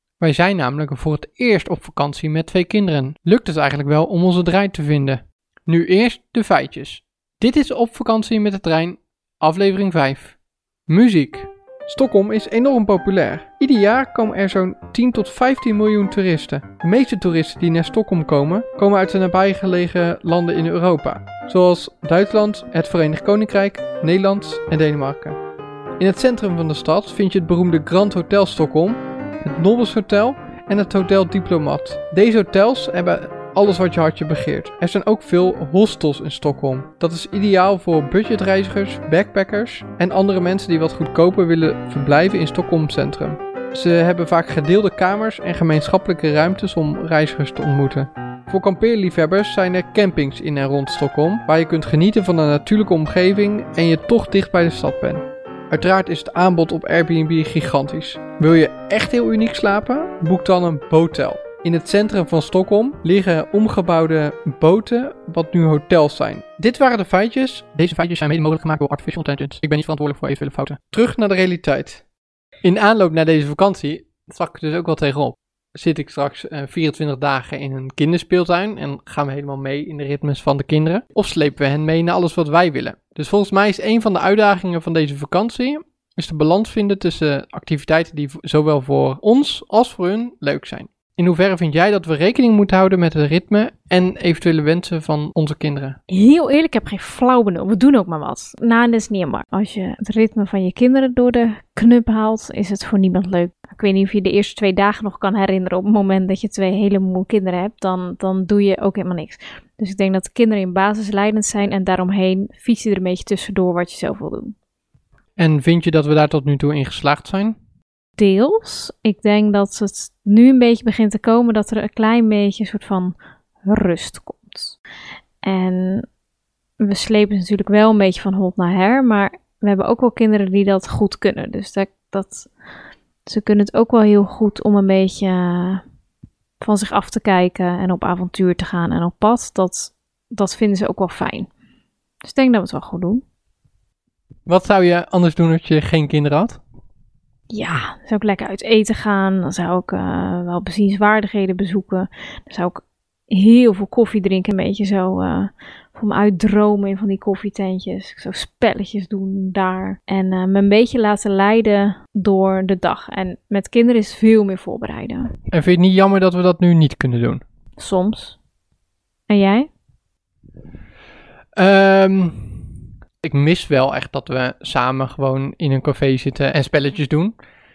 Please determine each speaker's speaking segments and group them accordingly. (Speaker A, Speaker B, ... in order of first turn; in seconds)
Speaker A: 0.2-10.4, 10.9-25.4, 26.0-72.0, 72.6-96.0, 115.4-117.5, 144.5-146.6, 165.5-167.4, 171.6-177.3
Speaker B: 96.1-114.5, 118.2-124.8, 125.4-126.0, 126.8-132.5, 133.2-135.8, 136.6-141.5, 142.2-143.2, 147.5-165.3, 167.8-168.4, 169.3-169.7